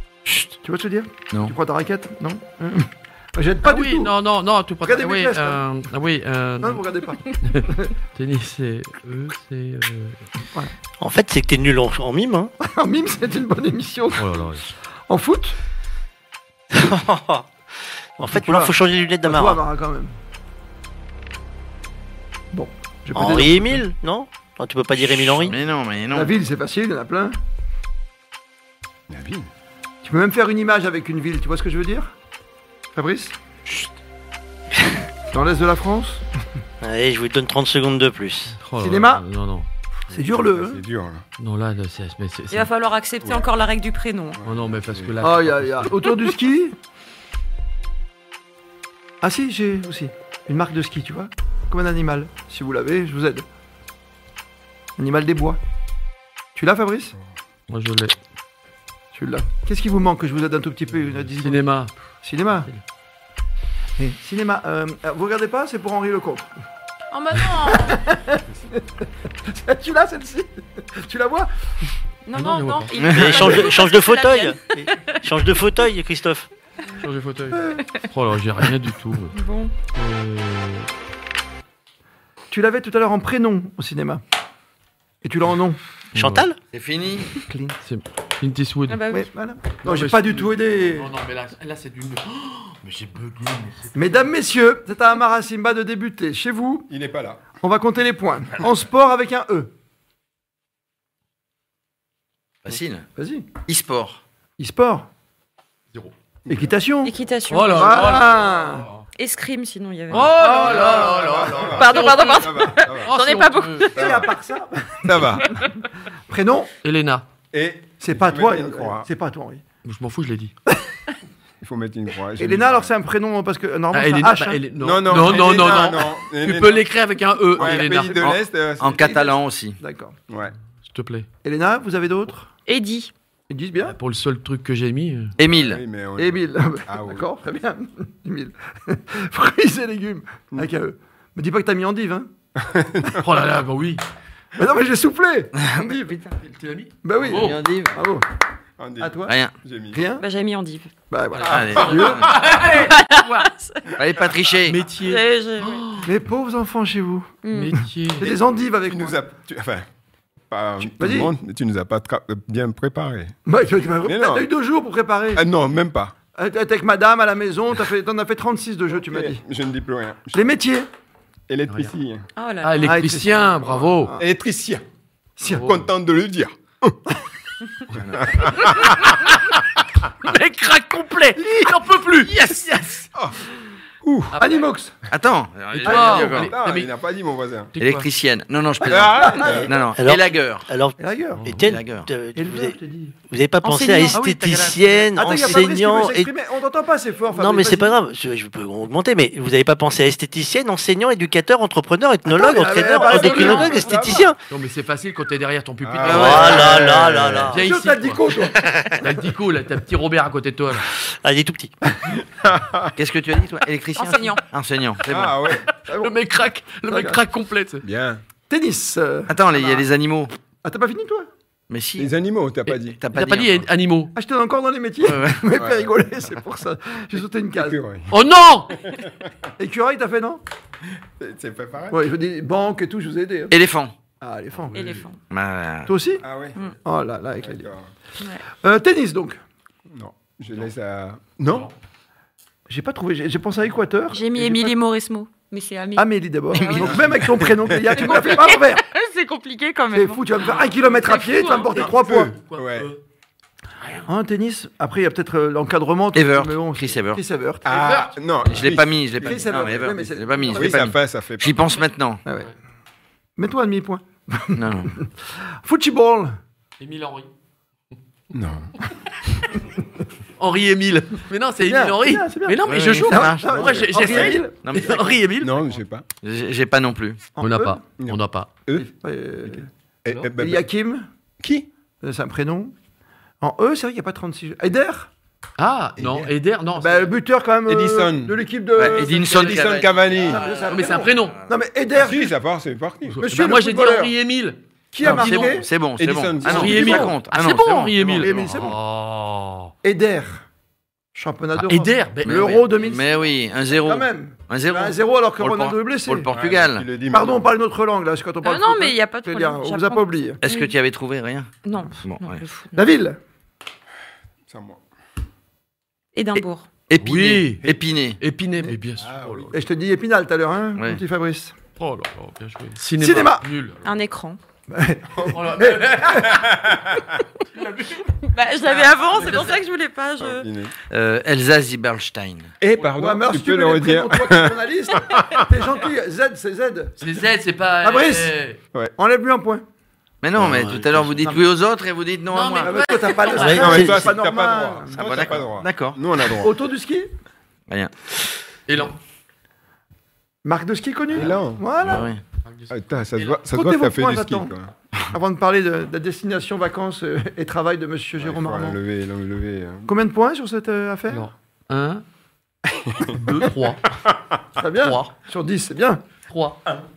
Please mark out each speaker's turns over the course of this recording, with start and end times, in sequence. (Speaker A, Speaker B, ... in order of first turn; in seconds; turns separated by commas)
Speaker A: 0.2-4.1, Speaker B: 3.6-6.8, Speaker A: 4.8-5.6, Speaker A: 6.6-7.9, Speaker B: 7.4-10.2, Speaker C: 11.0-12.5, Speaker A: 12.6-14.3, Speaker B: 14.2-14.7, Speaker A: 15.1-15.6, Speaker C: 16.7-17.5, Speaker C: 18.2-19.6, Speaker A: 18.2-20.1, Speaker A: 22.5-23.8, Speaker C: 23.1-25.6, Speaker D: 25.1-26.3, Speaker A: 26.1-27.4, Speaker E: 29.1-29.5, Speaker A: 30.0-32.1, Speaker A: 32.9-33.4, Speaker A: 35.3-36.2, Speaker C: 36.8-38.6, Speaker B: 38.6-39.7, Speaker A: 38.8-39.2, Speaker A: 40.1-40.8, Speaker E: 40.1-41.2, Speaker B: 41.4-42.7, Speaker F: 42.5-44.4, Speaker E: 44.4-45.2, Speaker B: 44.4-46.0, Speaker A: 45.2-46.8, Speaker A: 49.2-53.5, Speaker A: 55.0-55.6, Speaker A: 56.5-57.1, Speaker B: 57.7-58.1, Speaker A: 59.1-61.6, Speaker B: 61.4-61.9, Speaker A: 62.2-62.7, Speaker A: 64.0-66.5, Speaker F: 67.1-68.0, Speaker A: 67.6-71.5, Speaker F: 72.2-75.2, Speaker B: 72.3-73.0, Speaker D: 73.0-73.5, Speaker C: 73.1-76.5, Speaker B: 77.0-79.4, Speaker A: 77.5-77.8, Speaker F: 79.3-79.7, Speaker B: 79.9-80.9, Speaker A: 82.5-84.2, Speaker A: 85.2-85.8, Speaker B: 86.1-86.5, Speaker C: 86.1-86.6, Speaker D: 86.7-87.3, Speaker A: 87.3-87.7, Speaker B: 87.8-89.0, Speaker F: 88.9-89.3, Speaker A: 89.1-91.1, Speaker B: 89.8-94.2, Speaker A: 93.9-96.9, Speaker E: 96.9-97.4, Speaker A: 97.6-99.7, Speaker D: 102.6-103.1, Speaker A: 103.2-103.5, Speaker D: 103.7-104.2, Speaker A: 104.6-105.1, Speaker E: 106.5-106.7, Speaker A: 106.5-107.1, Speaker F: 107.0-108.2, Speaker B: 107.5-109.0, Speaker A: 107.7-108.9, Speaker F: 109.2-110.7, Speaker B: 110.1-114.0, Speaker A: 110.3-111.5, Speaker E: 110.5-113.2, Speaker F: 111.6-114.3, Speaker A: 113.9-115.3, Speaker E: 113.9-114.3, Speaker E: 115.0-115.6, Speaker F: 115.4-115.7, Speaker A: 116.3-116.7, Speaker B: 116.8-117.3, Speaker E: 117.5-119.1, Speaker A: 118.0-119.6, Speaker B: 119.8-120.5, Speaker E: 121.6-122.9, Speaker A: 122.4-125.6, Speaker B: 123.9-128.3, Speaker E: 124.8-126.9, Speaker E: 127.5-129.1, Speaker D: 127.6-127.9, Speaker D: 128.8-129.8, Speaker A: 128.9-130.2, Speaker E: 130.3-130.5, Speaker B: 130.8-131.3, Speaker A: 131.4-132.5, Speaker F: 132.7-133.1, Speaker A: 133.5-133.9, Speaker B: 133.8-135.3, Speaker D: 135.4-135.8, Speaker E: 135.4-137.2, Speaker A: 136.2-142.3, Speaker E: 142.6-143.2, Speaker B: 143.1-144.0, Speaker A: 144.6-146.3, Speaker B: 146.4-147.6, Speaker A: 147.0-148.2, Speaker D: 147.2-148.0, Speaker E: 148.8-150.0, Speaker A: 149.0-149.3, Speaker D: 149.3-149.5, Speaker A: 149.9-150.2, Speaker F: 150.2-150.9, Speaker A: 151.1-152.2, Speaker D: 151.4-152.3, Speaker E: 151.4-152.4, Speaker B: 151.9-153.4, Speaker F: 152.6-154.0, Speaker D: 154.0-154.8, Speaker B: 154.7-156.1, Speaker F: 155.0-156.0, Speaker A: 156.0-157.4, Speaker F: 157.4-157.8, Speaker B: 157.5-158.3, Speaker A: 158.2-159.2, Speaker E: 158.8-159.9, Speaker E: 160.5-163.3, Speaker A: 160.8-161.3, Speaker A: 163.4-165.4, Speaker E: 164.0-164.5, Speaker E: 165.3-166.1, Speaker A: 166.3-169.4, Speaker E: 169.0-170.5, Speaker A: 170.3-170.9, Speaker E: 171.5-172.3, Speaker B: 171.7-171.9, Speaker F: 172.3-173.0, Speaker B: 172.6-174.1, Speaker A: 172.8-174.2, Speaker E: 174.2-174.8, Speaker A: 175.4-175.7, Speaker B: 175.4-175.8, Speaker E: 175.5-177.0, Speaker B: 178.0-179.5, Speaker D: 178.0-178.3, Speaker E: 178.0-179.2, Speaker B: 180.2-183.1, Speaker E: 183.1-183.4, Speaker E: 184.0-184.3, Speaker B: 184.3-184.7, Speaker A: 184.4-184.9, Speaker D: 185.1-186.5, Speaker B: 185.7-186.9, Speaker E: 185.8-187.7, Speaker B: 187.7-188.1, Speaker D: 187.8-190.7, Speaker A: 188.8-189.9, Speaker E: 188.8-189.7, Speaker C: 189.9-192.8, Speaker A: 191.0-191.6, Speaker B: 191.3-191.7, Speaker D: 191.6-192.1, Speaker A: 192.3-193.1, Speaker C: 193.3-196.3, Speaker F: 193.6-194.3, Speaker B: 194.1-194.8, Speaker A: 195.2-197.9, Speaker C: 197.3-204.4, Speaker A: 202.3-204.2, Speaker E: 203.1-204.2, Speaker B: 204.5-206.9, Speaker E: 205.8-207.5, Speaker D: 206.0-206.9, Speaker C: 206.1-207.6, Speaker B: 207.5-208.2, Speaker A: 207.5-208.8, Speaker B: 208.8-210.9, Speaker C: 211.1-211.7, Speaker E: 212.3-212.9, Speaker D: 212.9-215.4, Speaker F: 213.9-214.4, Speaker E: 215.1-215.7, Speaker A: 215.9-216.1, Speaker B: 215.9-217.8, Speaker A: 216.9-217.2, Speaker E: 217.8-218.2, Speaker A: 218.5-219.9, Speaker D: 219.3-220.3, Speaker A: 220.6-221.3, Speaker D: 221.7-222.1, Speaker E: 222.0-223.0, Speaker D: 222.7-223.7, Speaker B: 223.1-224.1, Speaker A: 224.1-227.8, Speaker D: 225.0-225.4, Speaker E: 225.5-225.9, Speaker E: 227.6-228.2, Speaker B: 228.1-228.8, Speaker E: 228.7-229.3, Speaker A: 229.6-230.4, Speaker E: 231.2-232.0, Speaker A: 231.9-233.5, Speaker D: 233.5-233.9, Speaker A: 234.2-234.9, Speaker B: 234.7-235.1, Speaker F: 234.7-235.2, Speaker D: 235.3-235.9, Speaker A: 235.8-236.2, Speaker E: 236.2-236.6, Speaker A: 236.8-237.7, Speaker E: 237.4-237.9, Speaker A: 238.5-239.4, Speaker E: 239.9-241.7, Speaker B: 241.5-241.7, Speaker A: 242.7-244.7, Speaker F: 244.1-247.0, Speaker A: 246.0-248.8, Speaker D: 246.5-247.2, Speaker E: 246.9-248.1, Speaker F: 248.0-250.3, Speaker A: 249.9-252.3, Speaker B: 250.4-253.0, Speaker E: 251.7-252.9, Speaker B: 253.8-254.1, Speaker A: 254.1-257.7, Speaker D: 256.1-257.2, Speaker E: 257.6-259.8, Speaker B: 257.6-258.2, Speaker D: 258.5-262.2, Speaker A: 259.2-260.8, Speaker E: 260.5-261.6, Speaker A: 262.2-262.5, Speaker A: 263.4-266.4, Speaker D: 264.6-264.9, Speaker B: 266.8-267.3, Speaker E: 268.3-268.7, Speaker B: 270.4-275.7, Speaker A: 271.6-274.6, Speaker D: 272.7-275.2, Speaker E: 275.4-276.0, Speaker D: 276.2-277.2, Speaker A: 277.4-277.8, Speaker B: 277.4-278.5, Speaker E: 278.0-278.9, Speaker A: 278.7-279.7, Speaker E: 280.0-280.6, Speaker A: 280.4-281.1, Speaker E: 281.4-281.7, Speaker A: 282.0-282.7, Speaker A: 283.4-285.1, Speaker B: 285.6-287.1, Speaker E: 286.0-286.3, Speaker A: 286.8-289.5, Speaker E: 287.6-288.4, Speaker D: 288.8-291.5, Speaker B: 288.9-291.4, Speaker E: 289.2-290.4, Speaker A: 290.2-292.3, Speaker E: 291.9-293.2, Speaker B: 293.1-295.5, Speaker A: 293.2-294.1, Speaker A: 294.9-295.6, Speaker D: 295.0-298.6, Speaker E: 296.0-297.1, Speaker B: 296.5-299.7, Speaker A: 296.6-297.1, Speaker A: 298.2-298.8, Speaker A: 299.8-300.4, Speaker A: 301.1-303.2, Speaker B: 301.6-302.7, Speaker D: 302.2-306.9, Speaker A: 303.8-306.3, Speaker E: 306.3-307.5, Speaker A: 307.1-310.4, Speaker F: 308.4-310.7, Speaker D: 310.4-312.4, Speaker F: 311.6-312.9, Speaker A: 312.7-313.2, Speaker E: 314.5-314.8, Speaker F: 316.1-316.7, Speaker D: 316.9-318.2, Speaker B: 317.0-317.6, Speaker B: 318.2-319.5, Speaker E: 319.0-319.6, Speaker A: 319.5-321.5, Speaker D: 320.7-321.0, Speaker B: 321.8-323.9, Speaker A: 323.0-323.5, Speaker F: 323.8-324.4, Speaker A: 324.7-326.5, Speaker B: 325.2-326.4, Speaker E: 326.2-327.2, Speaker B: 327.5-329.6, Speaker F: 328.1-330.4, Speaker E: 330.2-330.7, Speaker D: 330.9-332.5, Speaker E: 332.6-335.4, Speaker A: 332.8-336.9, Speaker B: 337.0-338.6, Speaker A: 337.8-338.3, Speaker A: 339.0-339.6, Speaker D: 340.2-342.8, Speaker E: 340.4-340.8, Speaker B: 342.3-343.9, Speaker A: 342.6-345.1, Speaker C: 343.4-344.1, Speaker E: 343.5-346.5, Speaker D: 345.0-346.0, Speaker A: 346.3-347.1, Speaker D: 347.7-348.2, Speaker B: 348.7-349.0, Speaker A: 350.4-352.1, Speaker E: 351.1-352.0, Speaker D: 351.8-352.2, Speaker B: 352.4-353.4, Speaker E: 352.7-354.7, Speaker A: 353.5-354.5, Speaker A: 355.1-358.8, Speaker E: 358.2-359.9, Speaker A: 359.9-361.3, Speaker B: 361.1-362.0, Speaker E: 362.9-363.1, Speaker B: 363.1-363.8, Speaker E: 364.0-364.3, Speaker A: 364.6-366.0, Speaker B: 364.8-365.1, Speaker B: 366.3-366.8